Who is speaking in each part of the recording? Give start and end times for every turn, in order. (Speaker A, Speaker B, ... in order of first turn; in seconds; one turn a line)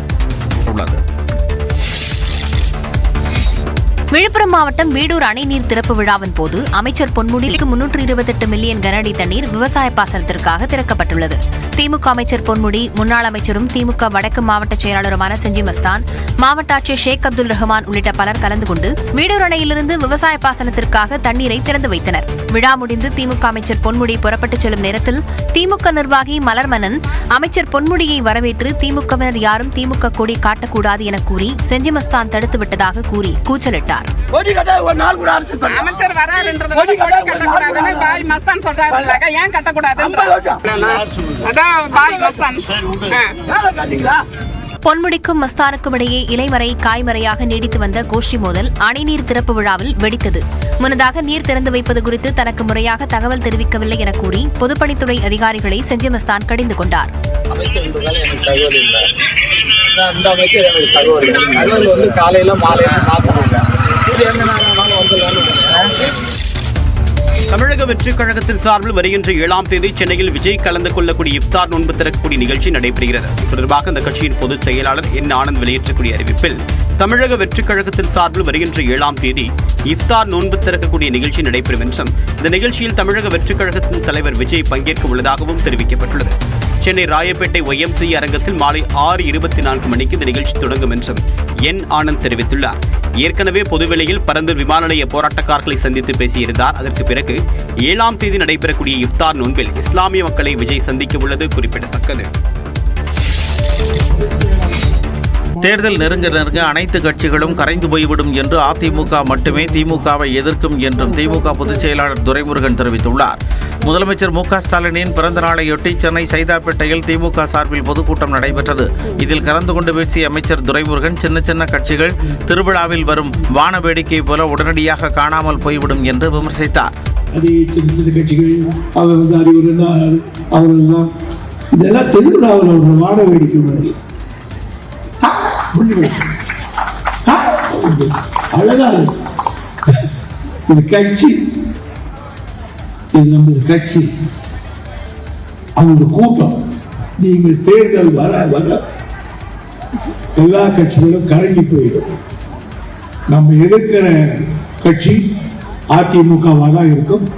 Speaker A: 0.6-1.0
Speaker B: 4.1-34.1
Speaker C: 34.6-43.6
Speaker B: 44.8-57.1
Speaker D: 57.5-59.1
Speaker D: 59.9-66.0
Speaker E: 67.5-102.3
Speaker A: 105.6-126.9
Speaker F: 127.3-131.1
Speaker F: 131.7-133.9
Speaker F: 135.2-136.2
Speaker F: 137.2-139.1
Speaker F: 140.7-141.4
Speaker F: 143.1-144.1
Speaker F: 145.8-146.5
Speaker F: 147.2-148.8
Speaker F: 150.3-152.1
Speaker F: 153.3-155.2
Speaker F: 155.9-157.2